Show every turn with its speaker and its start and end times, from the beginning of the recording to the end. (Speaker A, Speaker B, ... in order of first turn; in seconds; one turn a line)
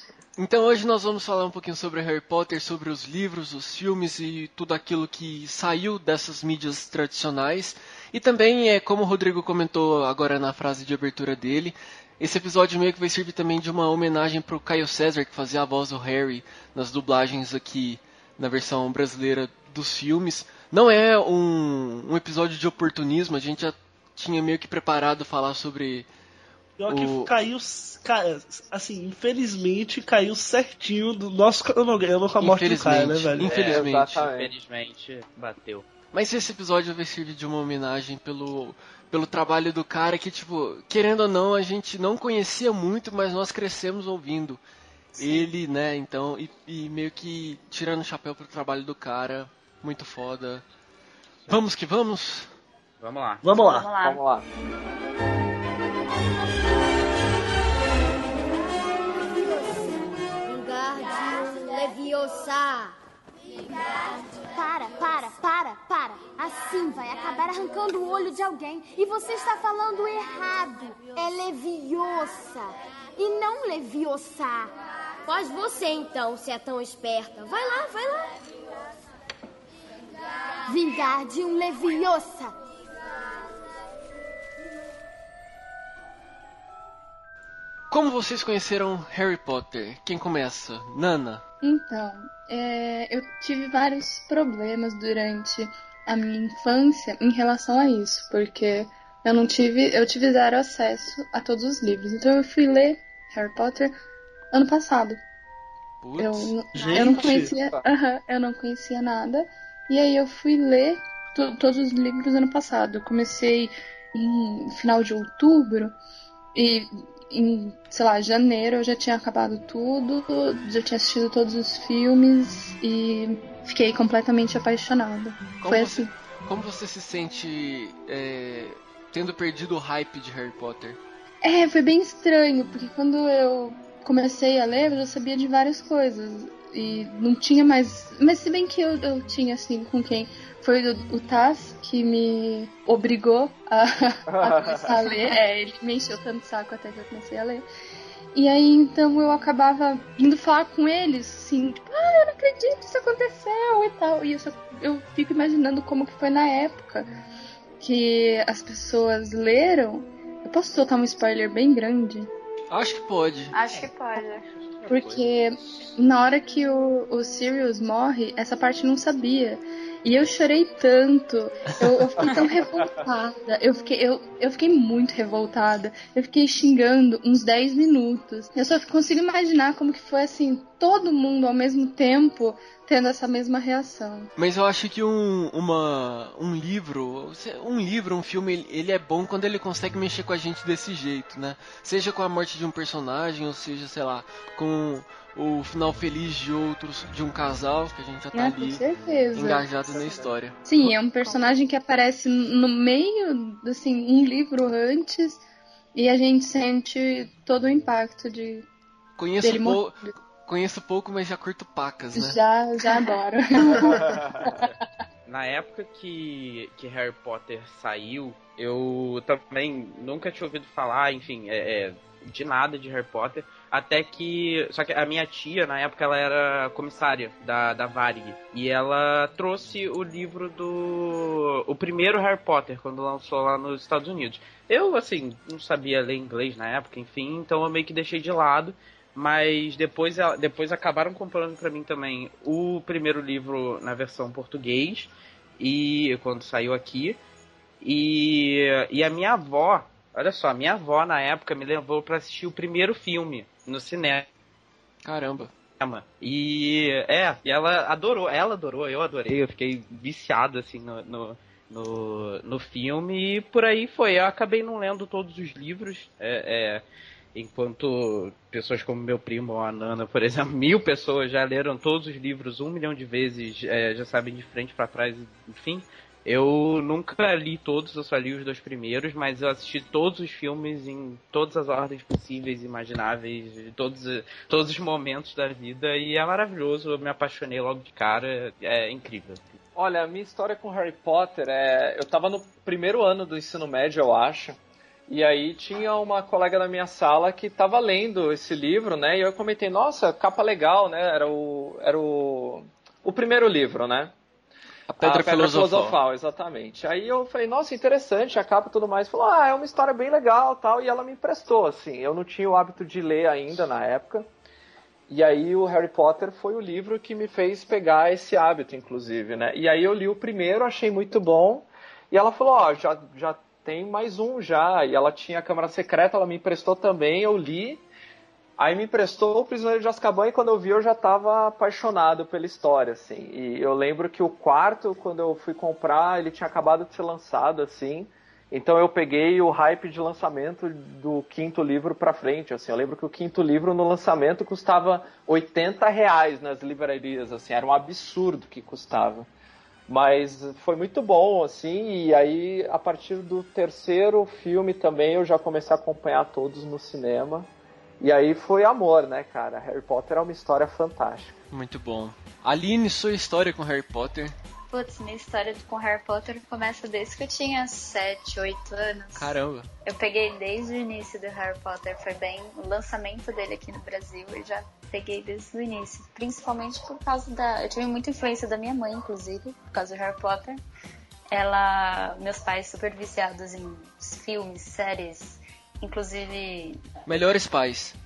Speaker A: 0.4-26.1
Speaker B: 26.8-33.5
Speaker A: 26.9-27.3
Speaker A: 32.4-34.1
Speaker C: 33.4-35.9
Speaker D: 33.5-34.5
Speaker A: 36.1-44.6
Speaker E: 45.1-45.5
Speaker A: 45.2-50.6
Speaker A: 51.5-52.5
Speaker C: 53.0-53.5
Speaker B: 53.4-53.9
Speaker E: 53.6-54.2
Speaker D: 54.0-54.5
Speaker F: 59.4-63.0
Speaker F: 64.4-74.7
Speaker F: 75.2-78.4
Speaker F: 80.7-82.5
Speaker A: 87.9-91.4
Speaker G: 91.6-104.0
Speaker G: 104.5-105.2
Speaker A: 106.0-106.5
Speaker G: 106.2-115.9
Speaker B: 106.7-107.5
Speaker E: 106.9-107.4
Speaker D: 107.5-107.8
Speaker G: 116.5-126.1
Speaker A: 125.6-131.0
Speaker G: 131.4-147.7
Speaker D: 144.3-144.9
Speaker G: 148.3-157.1
Speaker G: 157.8-162.3
Speaker A: 162.7-163.5
Speaker E: 163.5-164.5
Speaker C: 163.8-165.3
Speaker G: 164.9-184.3
Speaker A: 184.4-198.8
Speaker G: 198.3-200.0
Speaker A: 199.3-200.7
Speaker G: 200.7-205.4
Speaker E: 201.2-201.6
Speaker G: 205.9-208.7
Speaker A: 209.2-212.4
Speaker G: 209.4-210.1
Speaker G: 212.1-214.7
Speaker D: 214.0-214.5
Speaker C: 215.3-247.2
Speaker C: 247.8-254.3
Speaker A: 255.0-255.5
Speaker C: 255.8-289.5
Speaker D: 289.8-304.1
Speaker A: 304.9-306.0
Speaker D: 305.0-314.3
Speaker D: 315.1-327.8
Speaker D: 328.6-349.3
Speaker D: 349.9-357.5
Speaker D: 358.0-361.3
Speaker A: 361.5-364.4
Speaker E: 364.7-380.6
Speaker A: 369.2-369.7
Speaker E: 381.3-386.8
Speaker A: 387.1-387.9